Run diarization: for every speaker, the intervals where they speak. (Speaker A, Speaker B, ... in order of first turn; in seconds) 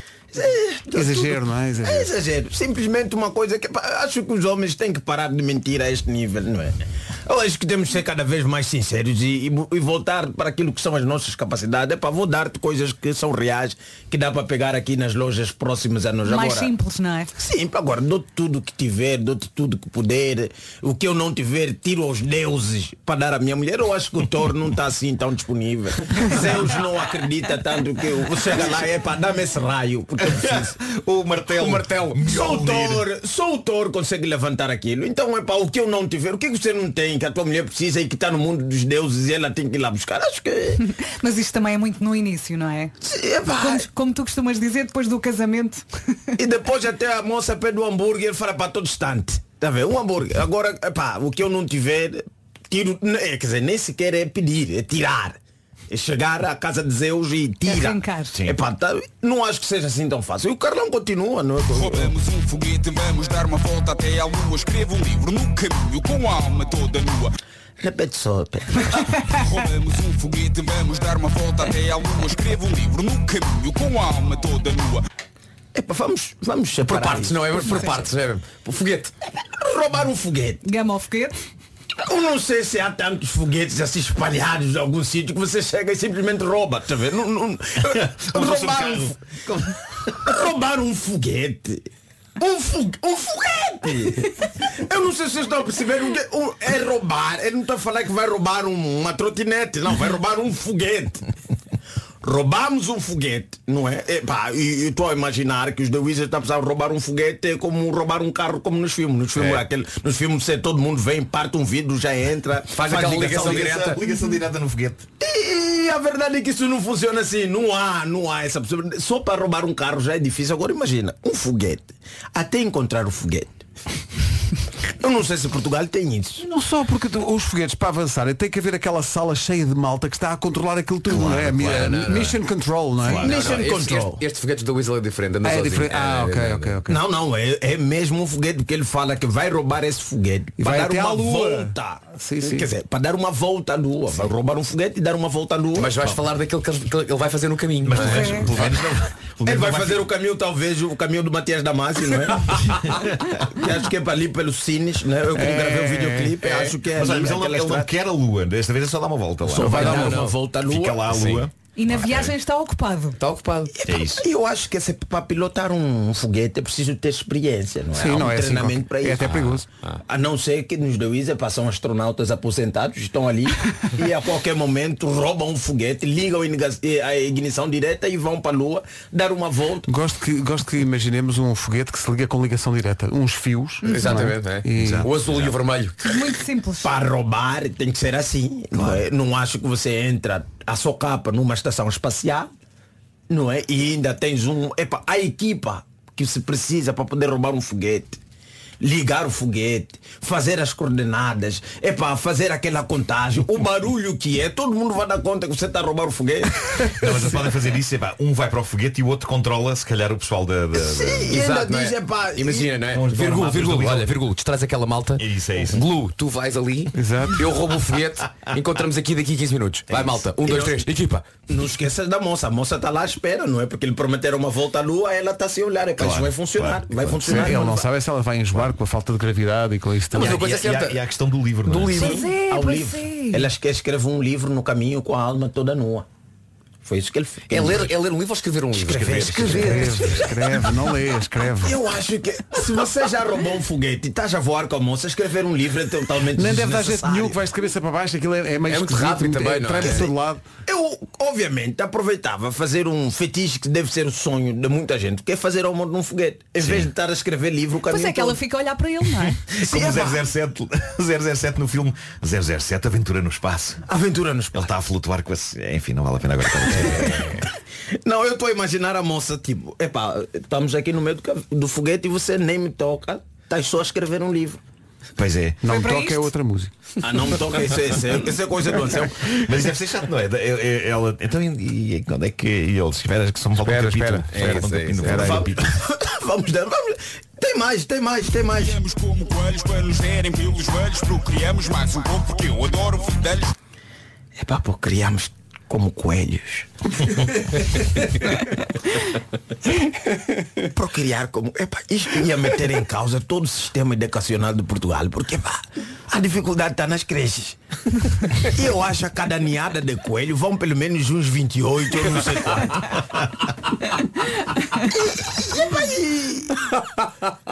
Speaker A: 0.3-16.7, 17.4-30.8, 31.6-40.8, 43.0-43.9, 46.4-55.4, 55.9-62.1, 67.8-69.2, 75.7-78.0, 79.6-80.7, 82.0-89.2, 90.2-101.2, 102.2-113.3, 115.2-123.6, 125.0-126.5, 133.2-134.2, 136.9-146.2, 149.4-152.9, 153.5-157.9, 159.4-161.2, 163.8-169.3, 170.1-179.9, 186.8-192.5, 193.3-198.2, 198.8-207.3, 210.7-212.8, 219.9-220.9, 221.5-227.9, 232.1-236.1, 236.8-237.9, 238.8-240.7, 241.6-247.4, 249.8-250.1, 250.7-258.4, 259.6-260.2, 263.9-264.7, 266.7-267.4, 268.0-274.6, 277.0-279.4, 285.2-288.8, 294.4-297.2, 300.6-307.6, 308.4-313.3, 314.8-316.8
Speaker B: 0.9-2.1, 126.4-133.3, 135.4-137.0, 140.6-142.7, 155.3-156.4, 159.7-160.2, 167.9-169.7, 179.9-185.1, 216.9-217.4, 227.3-230.4, 239.3-241.8, 246.3-250.4, 275.6-276.7, 283.6-285.5
Speaker C: 16.2-17.3, 40.8-42.9, 43.5-45.9, 57.6-58.4, 80.6-81.4, 147.9-148.5, 161.8-163.2, 183.8-184.3, 186.0-187.0, 231.9-233.5, 257.9-259.5, 275.7-276.3
Speaker D: 30.2-33.1, 87.9-90.3, 112.8-115.1, 133.1-133.7, 147.8-150.1, 152.7-153.5, 156.8-162.3, 163.8-164.3, 184.7-185.6, 188.8-189.0, 206.8-211.4, 212.9-214.2, 215.2-215.8, 226.0-227.6, 230.2-232.2, 238.9-239.8, 256.6-256.9, 259.5-263.8, 264.5-267.4, 275.2-275.6, 279.2-285.8
Speaker E: 61.7-67.3, 69.2-75.0, 288.5-293.5
Speaker F: 76.8-79.1, 112.7-114.0, 131.1-132.4, 133.2-136.8, 145.8-148.6, 156.4-156.7, 159.6-160.4, 161.1-161.5, 163.2-163.7, 169.2-170.0, 183.9-186.0, 211.3-221.3, 230.1-231.0, 231.7-232.3, 237.5-239.8, 248.7-250.1, 284.3-285.3